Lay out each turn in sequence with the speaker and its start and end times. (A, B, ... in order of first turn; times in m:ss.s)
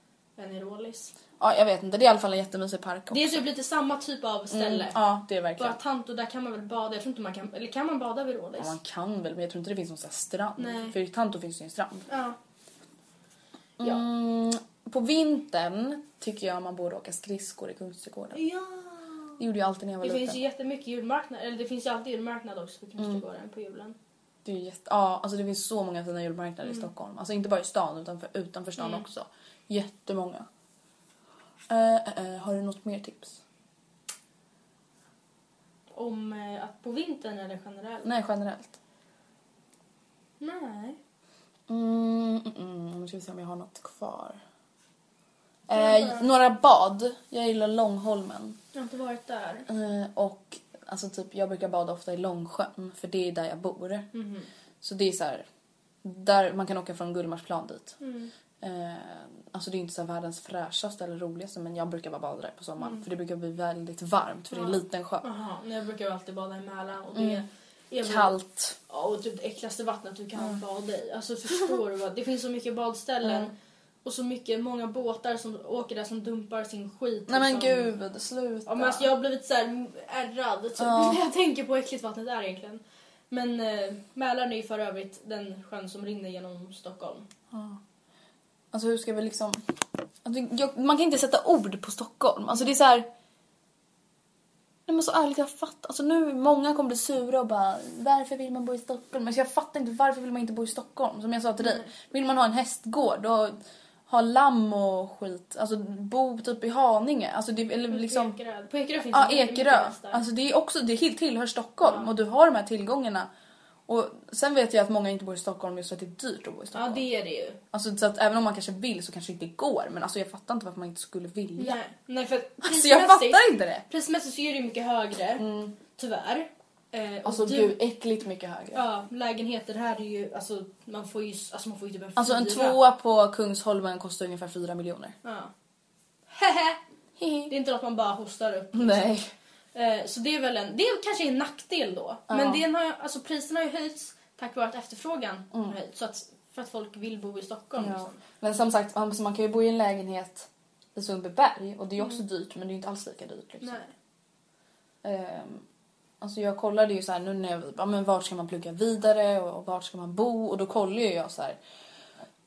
0:00.4-0:01.1 A
0:01.4-0:03.5 B
0:03.1-0:05.0 A
0:04.5-0:05.8 B
0:05.6-0:08.8 A
0:08.6-0:12.1 B
0:10.6-0:11.0 A
0:12.1-0:12.4 A
0:13.8-0:18.4 B
0:18.3-0:19.4 A
0:19.4-0:20.4 B
0:20.0-0:24.0 A
0:24.4-0:30.5 B
0:28.8-0:29.0 A
0:31.7-0:33.4 B
0:35.9-0:38.1 A
0:38.0-0:38.8 B
0:40.4-0:41.0 A
0:41.7-0:44.4 B
0:45.7-0:48.6 B
0:45.7-0:46.3 A
0:48.7-0:49.7 A
0:49.7-0:54.1 B
0:54.1-0:54.5 A
0:54.8-0:55.4 B
0:56.0-0:58.0 B
0:58.0-0:58.3 A
0:58.6-1:05.2 B
1:02.8-1:03.0 A
1:04.5-1:08.4 A
1:07.1-1:07.4 B
1:08.0-1:08.8 B
1:08.9-1:13.5 A
1:13.2-1:13.5 B
1:14.0-1:17.9 A
1:17.3-1:19.1 B
1:18.6-1:27.3 A
1:20.8-1:21.2 B
1:27.5-1:27.8 B
1:28.7-1:29.6 B
1:30.2-1:33.1 B
1:34.9-1:48.4 B
1:41.6-1:41.9 A
1:47.9-1:50.2 A
1:49.1-1:53.3 B
1:51.8-1:52.1 A
1:53.9-1:57.0 B
1:56.7-1:57.6 A
1:57.7-2:01.8 B
2:01.6-2:07.8 A
2:02.6-2:03.8 B
2:05.4-2:05.7 B
2:07.2-2:08.8 B
2:08.7-2:12.8 A
2:12.2-2:15.2 B
2:15.2-2:15.5 A
2:16.3-2:16.8 A
2:17.2-2:17.5 B
2:17.5-2:19.2 A
2:18.7-2:19.3 B
2:19.7-2:28.2 A
2:22.3-2:22.6 B
2:27.8-2:33.8 B
2:33.6-2:33.9 A
2:35.0-2:35.6 B
2:36.2-2:41.6 B